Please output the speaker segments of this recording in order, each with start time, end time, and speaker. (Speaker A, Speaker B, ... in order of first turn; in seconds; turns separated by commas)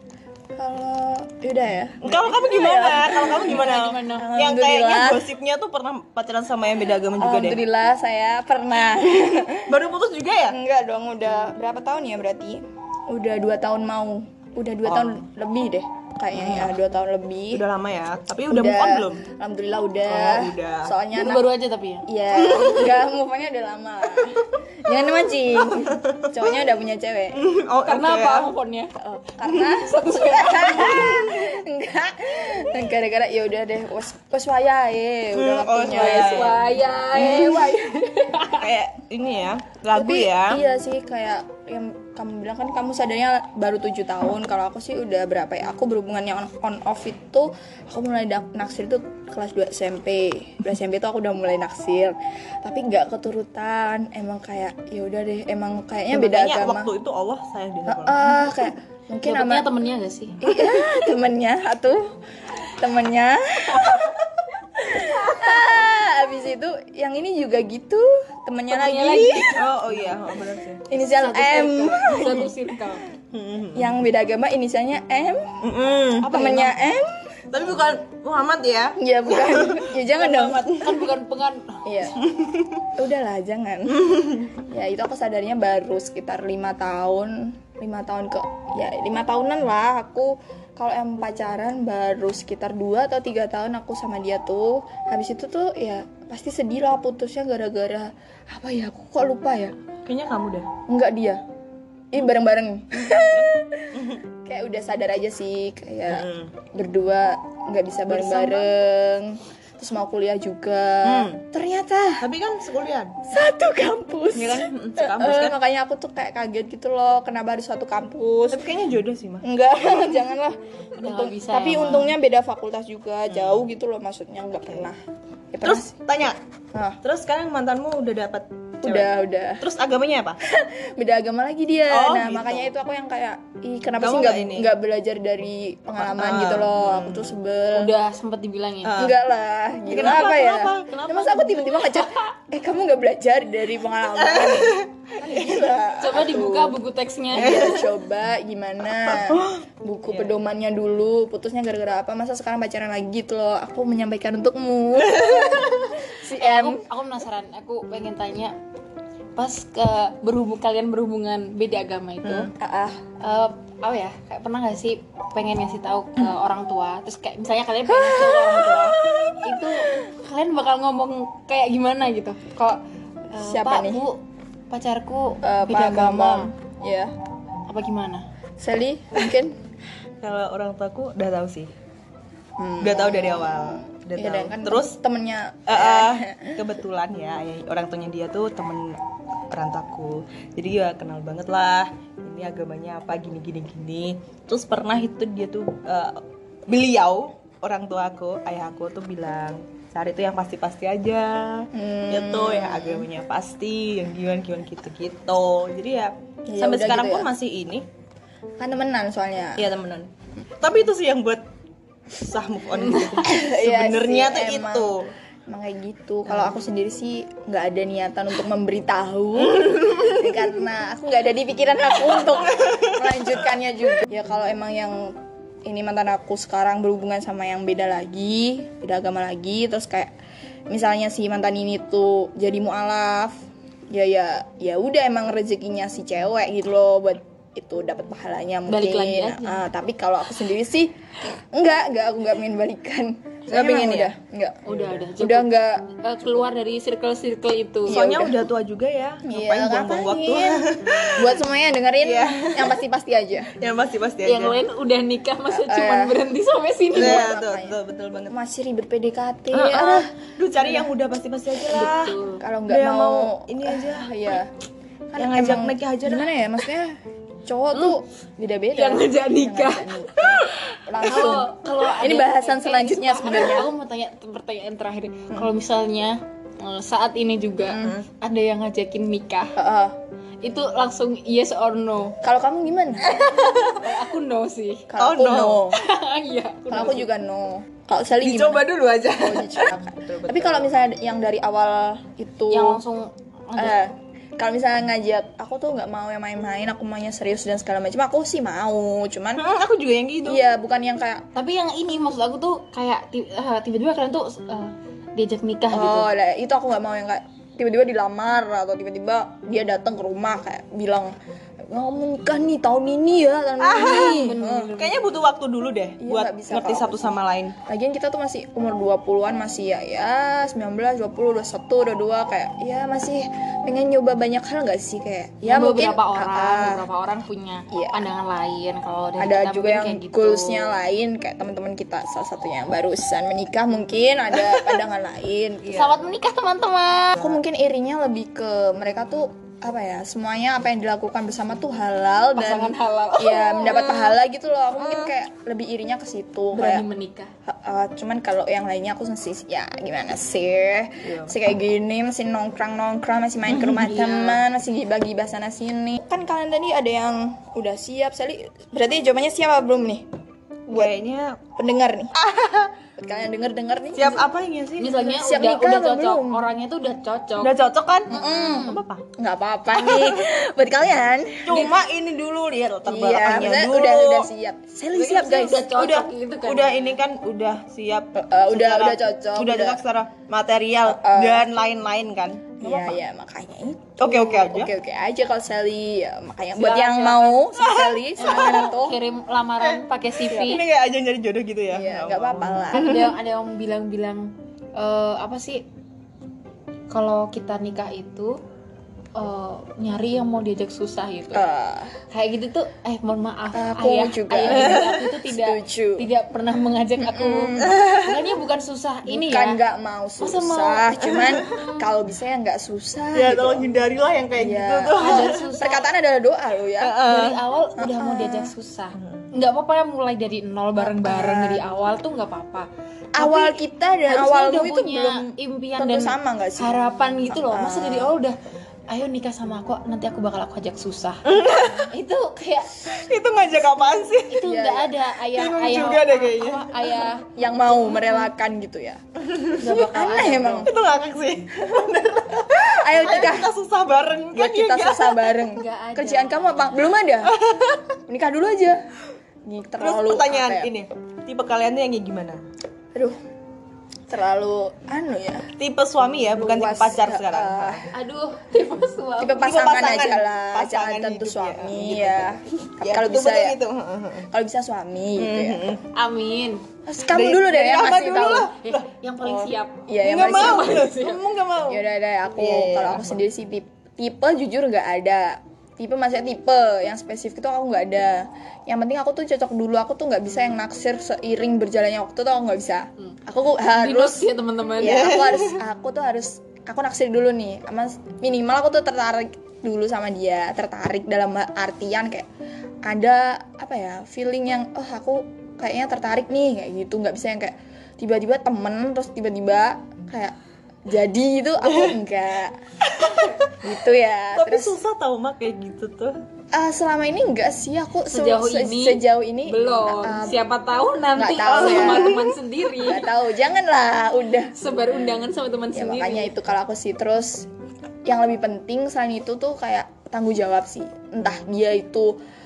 Speaker A: 0.6-5.3, Speaker B: 2.0-7.6, Speaker C: 3.3-4.3, Speaker A: 7.2-9.8, Speaker B: 9.7-10.6, Speaker A: 10.5-17.6, Speaker B: 14.9-15.2, Speaker B: 16.3-16.8, Speaker B: 17.5-19.2, Speaker A: 18.5-21.5, Speaker B: 20.1-20.9, Speaker C: 21.1-22.1, Speaker A: 22.1-27.4, Speaker B: 22.3-23.0, Speaker B: 25.6-26.5, Speaker B: 27.3-28.5, Speaker C: 27.9-28.9, Speaker A: 29.0-36.6, Speaker B: 29.5-29.8, Speaker C: 29.7-31.1, Speaker B: 30.8-31.5, Speaker B: 35.3-36.6, Speaker C: 35.9-38.7, Speaker A: 37.2-37.8, Speaker B: 38.6-40.6, Speaker A: 39.9-56.9, Speaker B: 56.1-58.3, Speaker A: 57.9-59.7, Speaker C: 59.2-60.4, Speaker A: 60.4-62.1, Speaker A: 62.7-64.2, Speaker C: 63.7-64.0, Speaker A: 64.8-69.7, Speaker C: 68.7-69.6, Speaker B: 69.5-70.8, Speaker A: 70.9-72.5, Speaker C: 71.0-73.1, Speaker B: 73.3-73.9, Speaker A: 73.8-75.5, Speaker B: 75.6-76.5, Speaker A: 76.2-77.2, Speaker C: 76.3-76.7, Speaker B: 77.5-81.0, Speaker A: 79.0-80.8, Speaker C: 80.7-82.0, Speaker A: 81.8-82.2, Speaker B: 82.2-82.8, Speaker A: 83.0-99.8, Speaker B: 84.0-84.4, Speaker B: 100.1-100.7, Speaker A: 100.9-101.4, Speaker A: 102.1-112.3, Speaker B: 103.0-104.2, Speaker B: 106.1-106.5, Speaker B: 108.1-108.7, Speaker B: 111.0-111.4, Speaker B: 112.2-113.2, Speaker A: 113.2-118.7, Speaker B: 114.3-115.6, Speaker B: 118.5-120.1, Speaker A: 119.4-125.0, Speaker C: 121.0-122.1, Speaker B: 123.3-123.6, Speaker A: 125.5-125.9, Speaker B: 125.6-126.4, Speaker A: 126.7-127.0, Speaker B: 127.0-130.4, Speaker A: 128.8-129.6, Speaker A: 130.4-137.9, Speaker B: 131.9-132.7, Speaker B: 134.0-134.7, Speaker B: 136.0-137.3, Speaker C: 137.7-138.9, Speaker B: 138.8-139.2, Speaker A: 139.0-146.7, Speaker B: 139.9-141.9, Speaker B: 144.2-146.3, Speaker C: 146.0-147.8, Speaker A: 147.3-156.8, Speaker B: 147.4-147.8, Speaker B: 149.1-150.3, Speaker B: 155.1-155.9, Speaker C: 156.4-158.6, Speaker C: 159.4-162.5, Speaker B: 162.2-162.5, Speaker A: 162.6-163.0, Speaker C: 163.2-176.5, Speaker A: 173.4-174.1, Speaker A: 175.4-177.1, Speaker C: 177.7-178.2, Speaker A: 178.6-179.6, Speaker B: 180.2-181.7, Speaker A: 182.6-186.6, Speaker B: 182.8-185.0, Speaker B: 185.7-189.0, Speaker B: 189.5-207.8, Speaker A: 201.7-203.1, Speaker A: 206.5-207.3, Speaker A: 208.6-209.7, Speaker B: 209.6-211.4, Speaker B: 212.1-215.1, Speaker A: 213.2-215.0, Speaker A: 215.5-230.1, Speaker B: 219.6-220.2, Speaker B: 222.6-223.0, Speaker A: 230.7-245.8, Speaker C: 238.7-239.6, Speaker B: 243.5-244.1, Speaker C: 244.7-248.0, Speaker B: 244.7-245.0, Speaker A: 247.9-248.5, Speaker B: 247.9-251.4, Speaker A: 249.3-253.5, Speaker B: 252.0-252.8, Speaker B: 253.6-254.6, Speaker C: 254.2-257.3, Speaker A: 255.5-256.2, Speaker A: 256.9-257.8, Speaker B: 256.9-258.4, Speaker A: 258.3-260.1, Speaker B: 259.5-262.2, Speaker C: 261.7-262.4, Speaker A: 262.4-264.5, Speaker B: 262.7-264.1, Speaker A: 265.1-273.7, Speaker B: 265.2-266.3, Speaker C: 268.7-279.6, Speaker A: 277.7-278.0, Speaker A: 279.6-280.0, Speaker C: 280.4-282.2, Speaker A: 282.2-283.2, Speaker B: 283.0-283.8, Speaker C: 283.2-284.9, Speaker A: 284.9-285.8, Speaker B: 285.0-285.7, Speaker C: 285.7-287.1, Speaker A: 286.7-292.8, Speaker B: 288.2-290.7, Speaker C: 292.5-293.8, Speaker A: 293.6-299.4, Speaker B: 299.4-300.4, Speaker A: 300.2-301.3, Speaker C: 301.4-306.1, Speaker A: 305.7-314.7, Speaker B: 313.6-317.6, Speaker C: 314.0-315.0, Speaker A: 316.0-326.9, Speaker C: 325.4-330.7, Speaker A: 327.7-328.0, Speaker A: 329.2-335.9, Speaker C: 335.7-337.3, Speaker A: 337.2-346.9, Speaker C: 342.4-344.1, Speaker B: 344.8-345.1, Speaker C: 346.5-347.3, Speaker A: 347.5-360.1, Speaker B: 351.0-351.4, Speaker B: 353.5-353.9, Speaker C: 353.6-354.4, Speaker A: 360.7-360.9, Speaker B: 360.7-361.4, Speaker A: 361.6-362.1, Speaker B: 362.1-362.7, Speaker A: 363.0-364.3, Speaker B: 364.0-364.9, Speaker C: 364.8-367.5, Speaker A: 365.0-366.4, Speaker B: 367.4-369.0, Speaker A: 368.1-371.7, Speaker B: 369.7-370.3, Speaker B: 371.4-374.3, Speaker A: 372.9-375.7, Speaker C: 374.9-377.0, Speaker B: 375.0-383.0, Speaker A: 378.2-379.8, Speaker A: 380.9-381.5, Speaker A: 382.6-389.0, Speaker B: 384.0-384.7, Speaker C: 386.6-387.5, Speaker B: 387.6-388.7, Speaker C: 388.2-390.6, Speaker B: 389.6-393.1, Speaker A: 391.7-392.9, Speaker C: 392.7-395.6, Speaker C: 396.9-398.4, Speaker C: 399.1-401.5, Speaker A: 401.3-402.0, Speaker C: 402.1-409.6, Speaker A: 403.5-406.1, Speaker B: 404.5-405.0, Speaker A: 407.0-407.9, Speaker B: 407.6-408.2, Speaker A: 409.1-413.8, Speaker C: 410.2-410.9, Speaker B: 411.0-411.5, Speaker C: 411.5-411.9, Speaker B: 413.1-415.4, Speaker A: 414.4-417.0, Speaker C: 415.0-415.9, Speaker B: 416.8-417.4, Speaker C: 417.0-428.4, Speaker A: 417.8-418.5, Speaker B: 419.0-419.3, Speaker A: 420.8-421.6, Speaker A: 423.2-426.7, Speaker A: 427.3-428.2, Speaker C: 428.9-431.4, Speaker B: 431.3-431.9, Speaker C: 431.9-432.7, Speaker B: 432.9-434.4, Speaker C: 434.3-438.2, Speaker A: 434.4-434.9, Speaker B: 435.2-436.8, Speaker A: 437.3-439.0, Speaker B: 439.3-439.6, Speaker A: 439.6-440.7, Speaker C: 439.6-440.7, Speaker B: 440.6-445.4, Speaker A: 442.8-443.5, Speaker A: 444.3-447.3, Speaker C: 445.5-446.9, Speaker B: 447.2-447.9, Speaker A: 448.1-448.8, Speaker A: 449.4-450.7, Speaker B: 449.8-452.4, Speaker A: 454.1-455.5, Speaker B: 455.6-457.9, Speaker A: 456.3-457.9, Speaker C: 457.9-459.5, Speaker A: 459.2-463.6, Speaker B: 459.4-464.3, Speaker A: 464.3-465.7, Speaker B: 465.2-465.8, Speaker C: 465.9-466.6, Speaker A: 466.9-468.5, Speaker B: 467.1-468.9, Speaker C: 468.6-471.2, Speaker A: 469.3-470.9, Speaker B: 470.0-473.2, Speaker A: 471.7-484.3, Speaker C: 483.7-485.2, Speaker A: 484.8-492.3, Speaker B: 484.8-485.6, Speaker A: 492.8-500.4, Speaker A: 500.9-502.6, Speaker B: 501.7-502.0, Speaker B: 502.8-503.6, Speaker A: 503.6-504.8, Speaker B: 504.4-506.2, Speaker A: 506.5-510.4, Speaker C: 508.1-513.1, Speaker A: 511.2-514.5, Speaker B: 511.5-512.3, Speaker C: 514.5-516.3, Speaker A: 515.7-517.5, Speaker A: 518.1-522.2